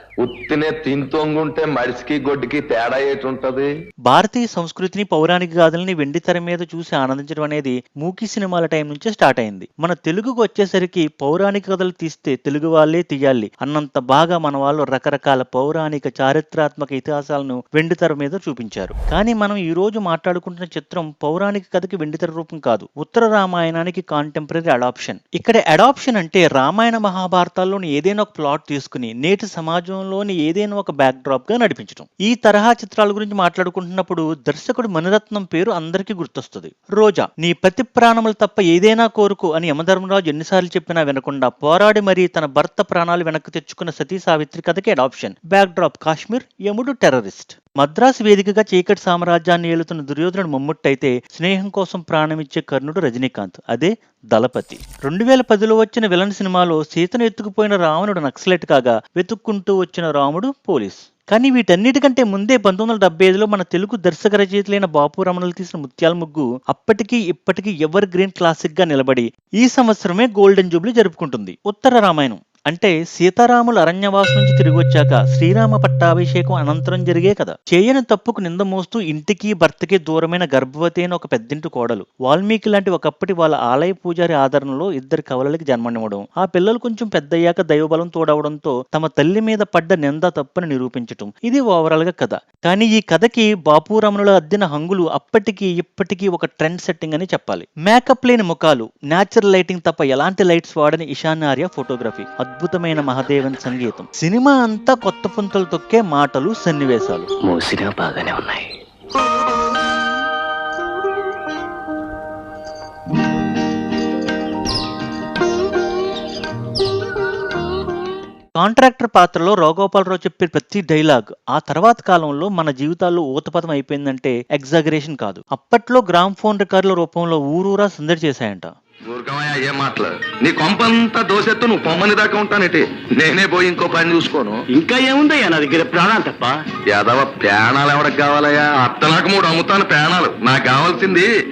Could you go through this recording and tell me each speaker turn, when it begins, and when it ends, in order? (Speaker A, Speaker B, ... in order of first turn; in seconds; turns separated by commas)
Speaker A: 0.2-3.7, Speaker B: 4.1-107.3, Speaker C: 107.5-108.7, Speaker B: 118.6-128.7, Speaker A: 129.1-134.6, Speaker C: 134.8-136.6, Speaker A: 136.9-141.3